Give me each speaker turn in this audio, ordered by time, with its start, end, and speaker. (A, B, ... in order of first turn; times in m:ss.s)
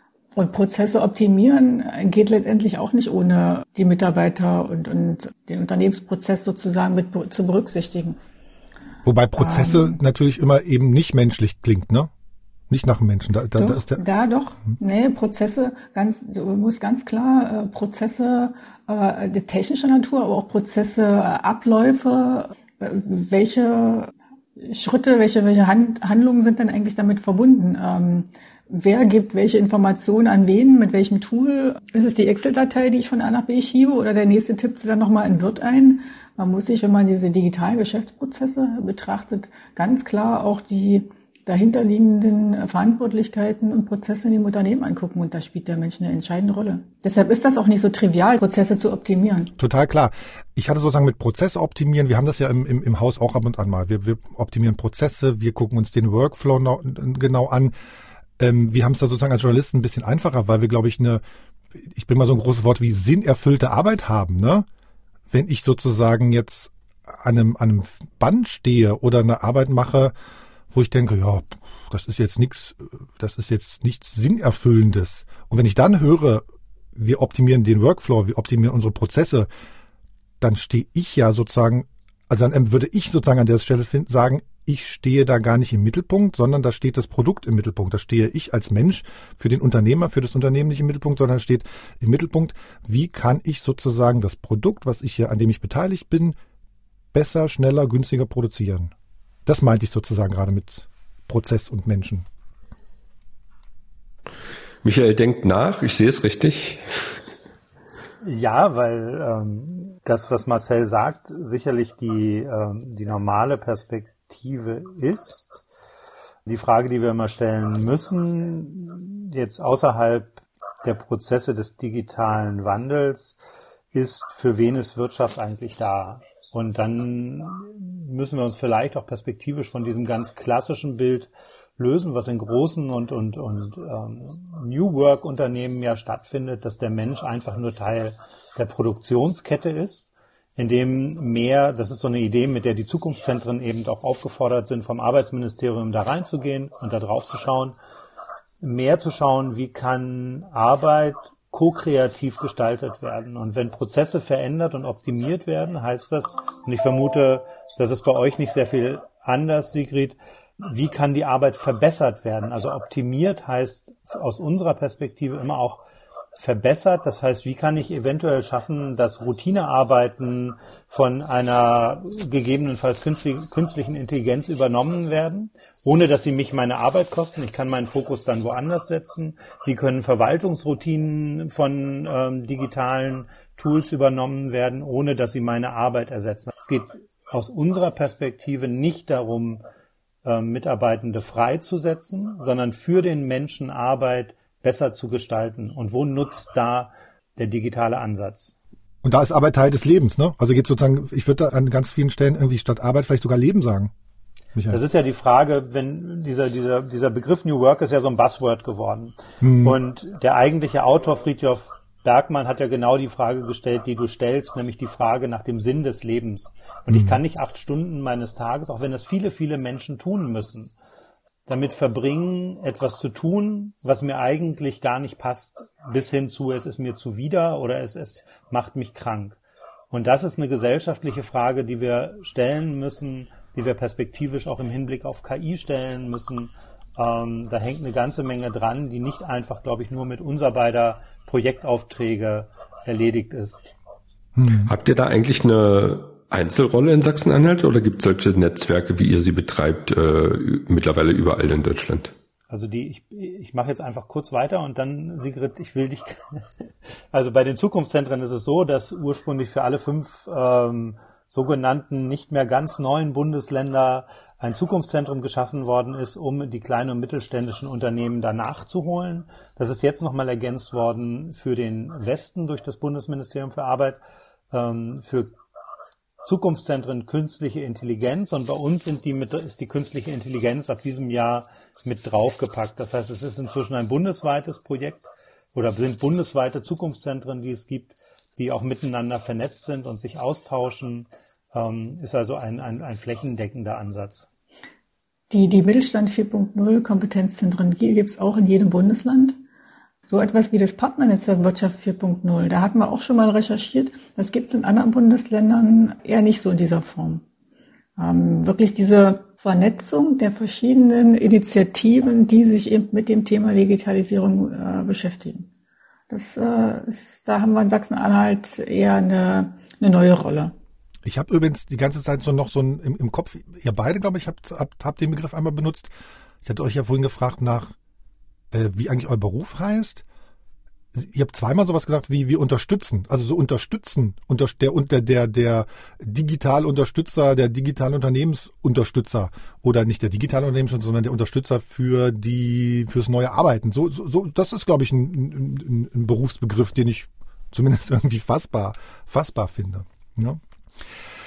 0:00.3-0:08.2 A
0:09.0-0:12.1 B
0:09.4-0:09.9 A
0:12.7-0:14.0 B
0:13.6-0:49.5 A
0:49.6-0:57.7 B
0:58.4-1:01.2 B
1:01.8-1:04.6 B
1:05.3-1:10.1 B
1:10.7-1:16.4 B
1:17.0-1:19.5 B
1:20.4-1:36.4 B
1:37.1-1:38.9 B
1:39.4-1:42.2 B
1:44.8-1:47.1 C
1:48.2-1:55.6 D
1:56.4-2:03.4 D
2:03.9-2:27.8 D
2:28.6-2:45.8 D
2:46.4-3:09.6 D
3:10.2-3:18.6 D
3:19.0-3:23.9 B
3:24.5-3:24.8 B
3:24.7-3:40.7 D
3:29.4-3:29.8 B
3:36.9-3:37.2 B
3:41.5-3:49.4 D
3:49.9-4:03.7 D
4:04.4-4:04.7 B
4:04.6-4:12.1 C
4:12.5-4:34.0 D
4:34.5-4:35.4 D
4:36.2-4:54.3 D
4:55.3-4:59.4 A
5:00.1-5:07.2 A
5:08.0-5:15.5 A
5:16.1-5:20.5 A
5:21.0-5:25.9 B
5:26.4-5:27.7 B
5:28.5-5:30.0 B
5:30.9-5:50.4 B